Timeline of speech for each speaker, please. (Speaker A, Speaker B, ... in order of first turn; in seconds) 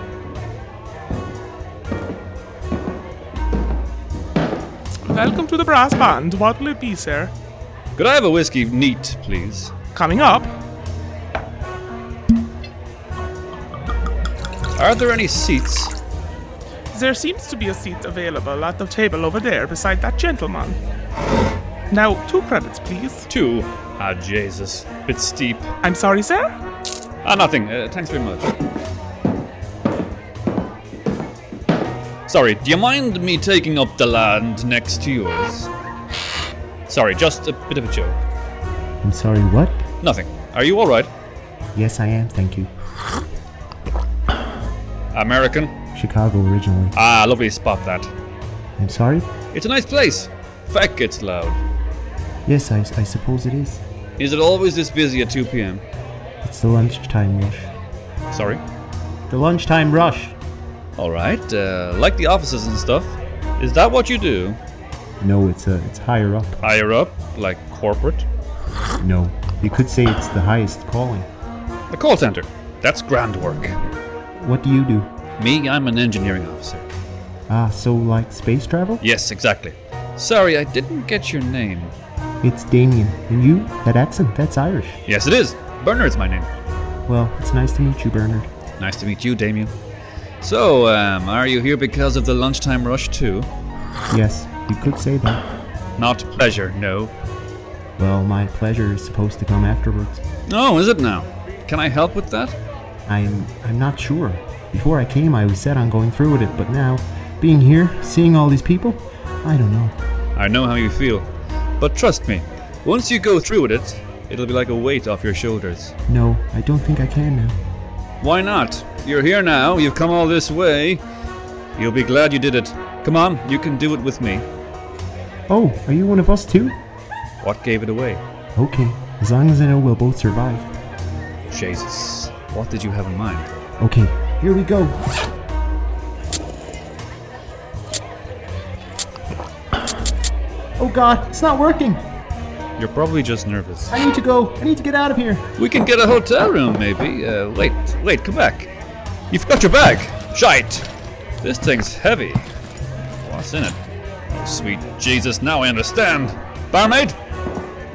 Speaker A: 5.1-7.3, 9.9-10.5, 16.9-20.8, 21.9-23.3, 25.8-26.5
Speaker B: 8.0-9.7, 14.8-15.9, 23.3-25.7, 27.2-28.5, 32.3-35.7, 36.9-38.2, 40.0-41.1, 45.1-45.7, 46.9-48.1, 49.5-51.6, 54.2-55.8, 58.3-58.6, 61.0-64.6, 66.6-68.3, 71.9-73.8, 75.4-76.9, 79.0-82.0, 85.1-86.5, 88.8-89.7, 90.4-93.5, 96.0-97.1, 100.5-102.6, 110.4-111.3, 111.8-115.9, 118.2-121.0, 121.8-124.5, 127.4-128.2, 131.5-133.5, 142.8-143.9, 145.6-148.7, 149.3-150.9, 151.4-152.5, 153.2-153.8, 154.3-157.2
Speaker C: 39.0-39.8, 41.8-42.7, 46.0-47.0, 48.8-49.3, 52.5-53.8, 56.4-57.7, 59.3-60.4, 65.2-66.6, 69.0-71.3, 74.4-75.1, 77.5-79.0, 82.4-85.0, 87.1-88.5, 94.1-95.5, 98.0-100.2, 103.1-110.0, 116.1-117.6, 125.5-126.8, 128.6-130.7, 133.8-135.0, 140.8-142.0, 143.9-145.4